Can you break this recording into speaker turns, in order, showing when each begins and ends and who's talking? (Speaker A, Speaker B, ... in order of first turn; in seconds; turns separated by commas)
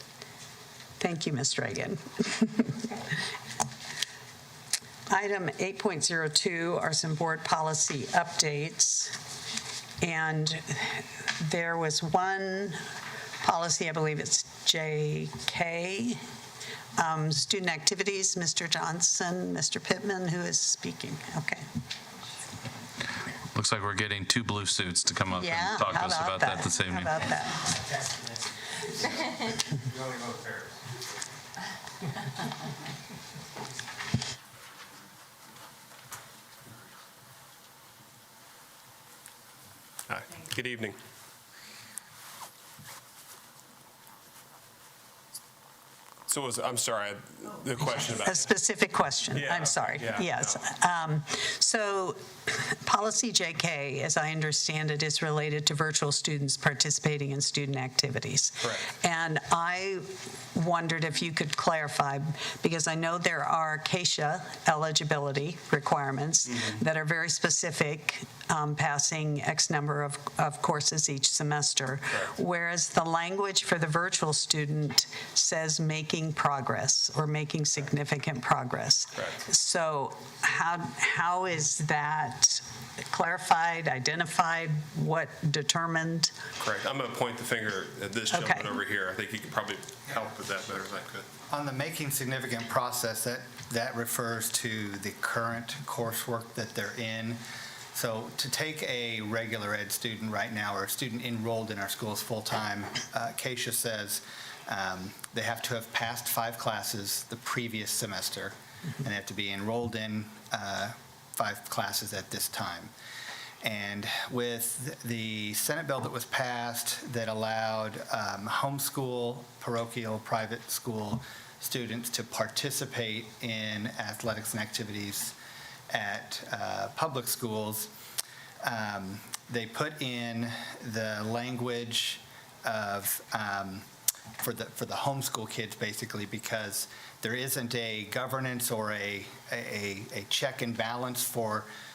Speaker A: 1.0-2.9, Speaker A: 5.1-9.2, Speaker A: 10.0-12.8, Speaker A: 13.4-16.2, Speaker A: 16.9-21.6, Speaker B: 23.5-27.1, Speaker A: 25.3-27.6, Speaker C: 40.1-41.0, Speaker C: 46.3-48.5, Speaker A: 48.0-86.3, Speaker C: 49.3-50.6, Speaker C: 58.6-58.9, Speaker C: 86.6-91.3, Speaker A: 88.3-88.8, Speaker D: 91.5-97.4, Speaker D: 97.9-112.9, Speaker D: 113.6-125.3, Speaker D: 125.9-127.9, Speaker D: 128.6-133.8, Speaker D: 134.4-141.7